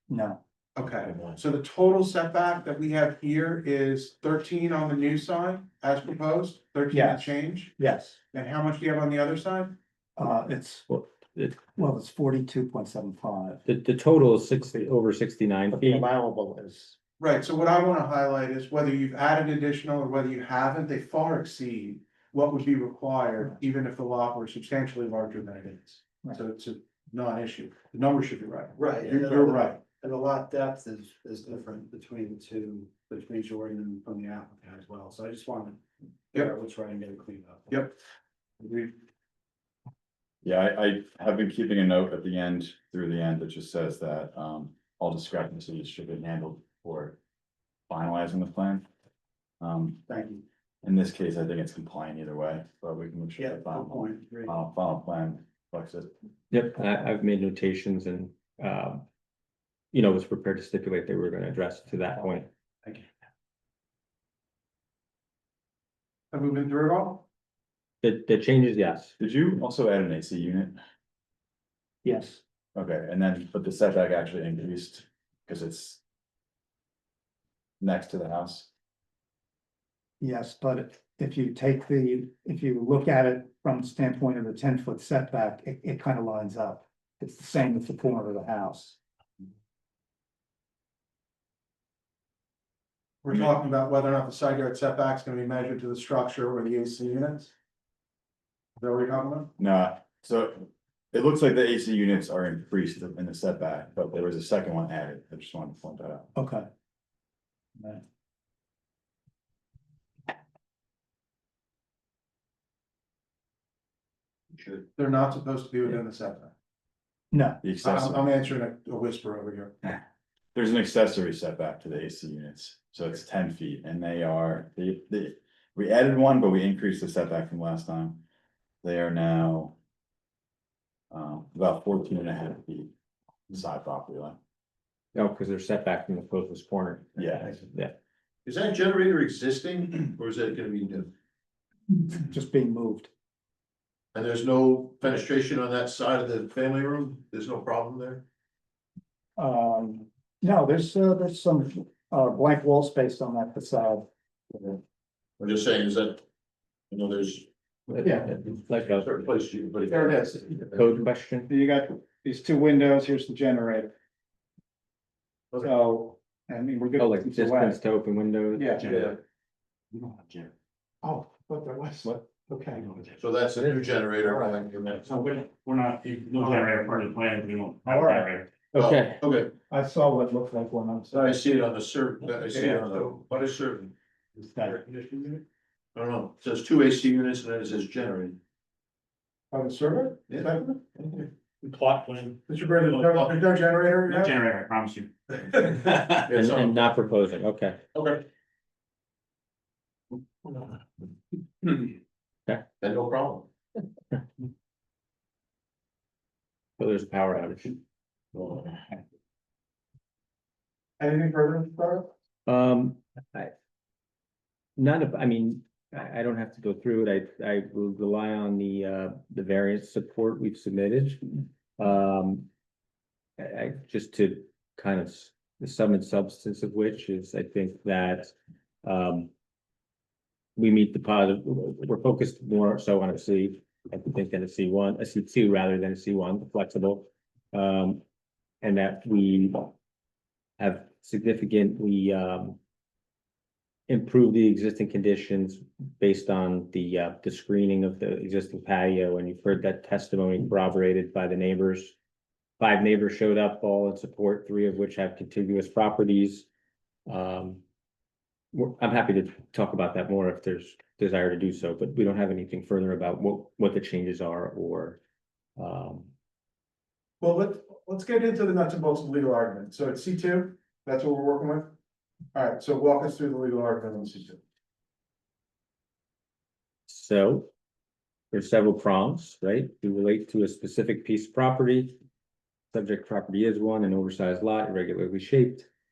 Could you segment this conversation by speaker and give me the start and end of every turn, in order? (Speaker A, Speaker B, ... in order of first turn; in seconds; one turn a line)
Speaker A: 0.1-0.4
Speaker B: 0.8-7.8
Speaker A: 6.9-8.2
Speaker B: 8.3-9.8
Speaker A: 10.2-10.9
Speaker C: 10.9-11.6
Speaker A: 11.7-13.6
Speaker C: 13.7-16.1
Speaker A: 15.7-16.9
Speaker B: 17.2-29.8
Speaker D: 28.8-35.8
Speaker D: 36.3-37.9
Speaker D: 38.6-38.9
Speaker E: 40.4-47.2
Speaker E: 47.9-48.9
Speaker E: 49.6-50.3
Speaker E: 50.8-56.1
Speaker D: 53.6-54.4
Speaker C: 56.5-59.0
Speaker C: 59.9-62.5
Speaker B: 66.3-67.2
Speaker C: 68.0-69.1
Speaker E: 69.2-70.8
Speaker A: 72.0-72.4
Speaker E: 72.8-76.0
Speaker E: 77.8-78.7
Speaker A: 80.2-89.0
Speaker B: 93.2-97.5
Speaker B: 98.8-99.5
Speaker E: 99.6-106.3
Speaker A: 106.4-106.7
Speaker B: 115.0-116.5
Speaker A: 117.3-117.6
Speaker E: 117.6-118.2
Speaker B: 117.8-119.9
Speaker E: 120.5-128.2
Speaker E: 128.8-129.8
Speaker E: 131.1-132.9
Speaker E: 133.5-134.4
Speaker C: 135.2-137.9
Speaker E: 137.2-137.5
Speaker F: 138.4-141.1
Speaker A: 142.0-143.1
Speaker F: 144.1-148.2
Speaker A: 149.4-154.1
Speaker F: 155.4-156.2
Speaker F: 156.9-157.5
Speaker C: 157.9-159.1
Speaker F: 158.9-160.8
Speaker C: 160.7-161.5
Speaker A: 161.5-163.9
Speaker A: 165.6-167.8
Speaker C: 167.0-168.8
Speaker A: 168.6-169.0
Speaker F: 168.8-169.2
Speaker G: 170.1-170.5
Speaker A: 171.0-172.8
Speaker F: 173.2-175.2
Speaker A: 174.2-174.6
Speaker G: 175.1-178.5
Speaker A: 176.4-176.8
Speaker A: 177.9-178.3
Speaker F: 178.7-179.6
Speaker C: 178.8-179.2
Speaker A: 179.7-181.4
Speaker F: 181.1-183.9
Speaker A: 182.5-183.1
Speaker A: 184.4-185.4
Speaker F: 185.9-188.4
Speaker B: 189.5-191.0
Speaker G: 191.7-192.4
Speaker B: 192.5-194.4
Speaker G: 194.1-195.1
Speaker F: 195.9-196.9
Speaker C: 196.3-197.8
Speaker F: 197.9-198.2
Speaker F: 202.8-203.5
Speaker C: 206.8-207.8
Speaker F: 208.3-208.8
Speaker B: 211.0-212.1
Speaker C: 212.5-213.5
Speaker C: 214.8-221.3
Speaker C: 221.8-222.5
Speaker C: 223.4-229.3
Speaker C: 230.6-238.0
Speaker C: 238.6-239.7
Speaker C: 240.6-242.6
Speaker C: 243.9-251.9
Speaker C: 252.6-256.5
Speaker C: 257.1-257.6
Speaker C: 258.5-265.0
Speaker C: 265.6-266.1
Speaker B: 267.2-271.7
Speaker B: 272.3-274.4
Speaker C: 276.9-277.5
Speaker C: 278.3-282.0
Speaker C: 282.7-285.7